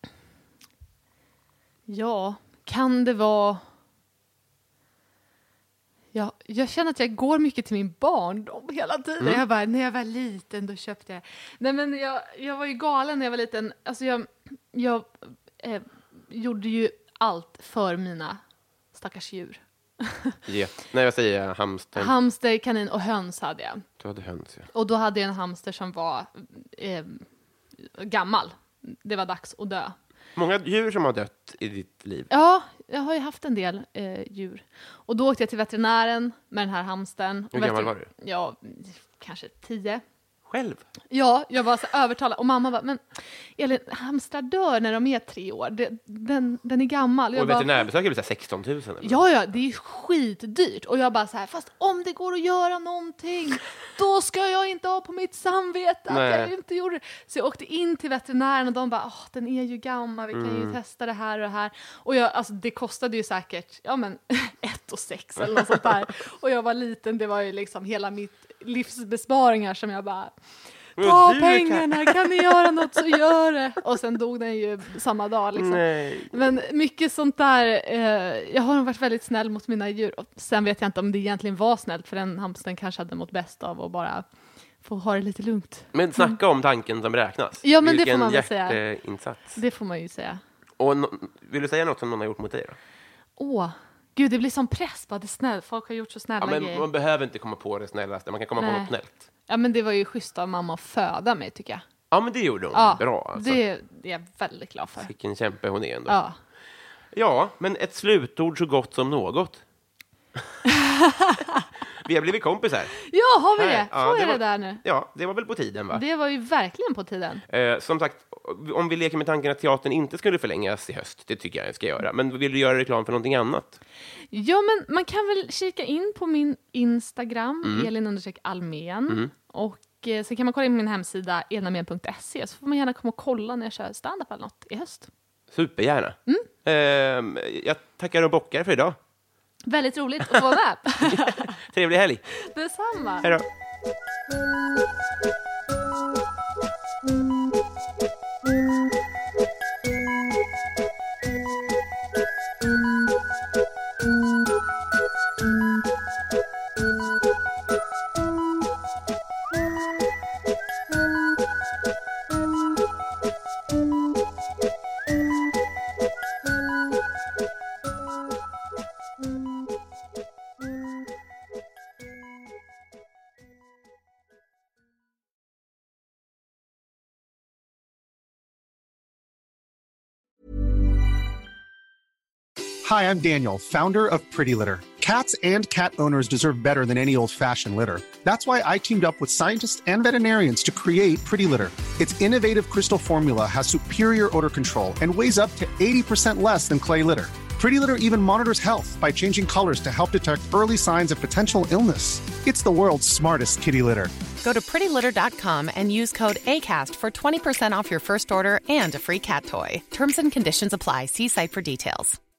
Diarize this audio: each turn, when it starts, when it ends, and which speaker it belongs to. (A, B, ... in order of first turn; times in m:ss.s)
0:01.9-0:03.6 A
0:06.1-0:18.4 A
0:18.9-0:20.4 A
0:20.5-0:22.1 B
0:22.0-0:23.8 A
0:24.0-0:24.7 B
0:24.7-0:27.2 A
0:27.8-0:29.9 A
0:30.4-0:32.3 B
0:32.3-0:40.0 A
0:37.5-0:38.1 B
0:40.5-0:40.8 B
0:41.1-0:47.9 A
0:47.3-0:49.2 B
0:49.0-1:10.3 A
0:56.1-0:56.5 B
1:00.3-1:00.8 B
1:10.9-1:24.2 A
1:11.0-1:12.8 B
1:15.5-1:16.3 B
1:24.8-1:26.4 A
1:25.9-1:29.6 B
1:27.6-1:28.8 A
1:29.5-1:30.4 A
1:30.8-1:32.8 B
1:33.4-1:36.9 A
1:36.4-1:39.2 B
1:38.6-1:38.9 A
1:39.5-1:41.8 A
1:42.1-1:43.6 B
1:42.7-1:45.1 A
1:45.0-1:46.2 B
1:46.1-1:46.4 A
1:47.1-1:49.6 B
1:50.6-1:51.4 A
1:52.0-1:52.9 B
1:53.1-1:54.8 A
1:53.5-1:56.0 B
1:55.9-1:57.4 A
1:57.5-2:03.8 B
2:04.3-2:15.1 A
2:07.6-2:07.9 B
2:15.5-2:19.0 B
2:19.7-2:21.5 A
2:21.0-2:22.2 B
2:22.4-2:23.3 A
3:02.8-3:24.1 C
3:24.4-3:32.2 D